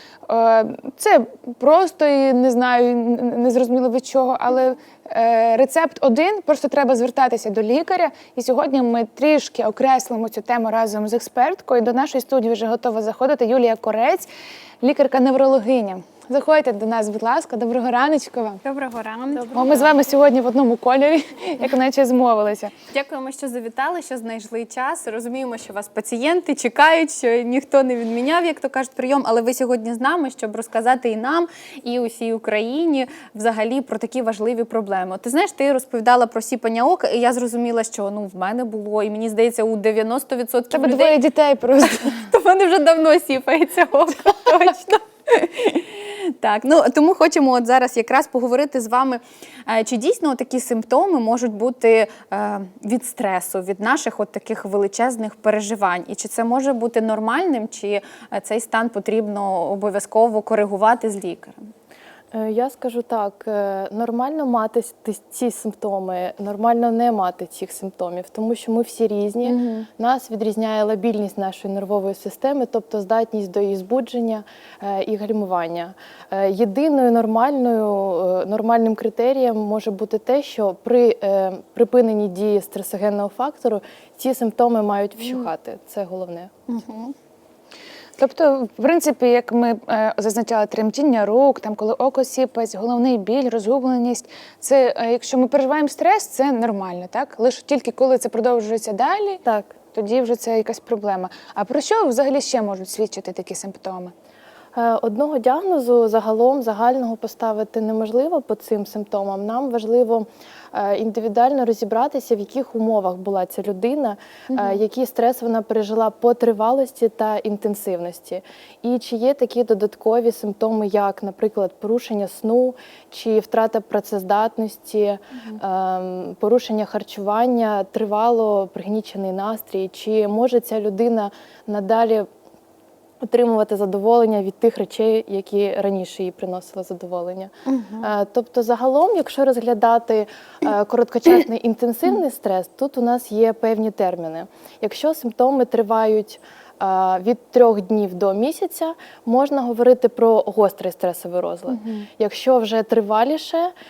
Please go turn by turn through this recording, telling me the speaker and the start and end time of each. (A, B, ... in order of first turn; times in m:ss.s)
0:00.3-0:14.3 A
0:14.8-0:18.6 A
0:18.6-0:19.9 B
0:19.5-0:22.7 A
0:22.9-0:41.2 B
0:40.7-0:42.3 A
0:41.8-1:01.6 B
1:02.3-1:26.5 C
1:09.4-1:09.9 B
1:26.7-1:27.1 B
1:28.2-1:39.4 A
1:39.4-1:39.7 C
1:39.9-1:44.1 A
1:44.7-2:12.3 C
2:13.2-2:33.7 C
2:17.6-2:18.1 B
2:31.8-2:32.0 A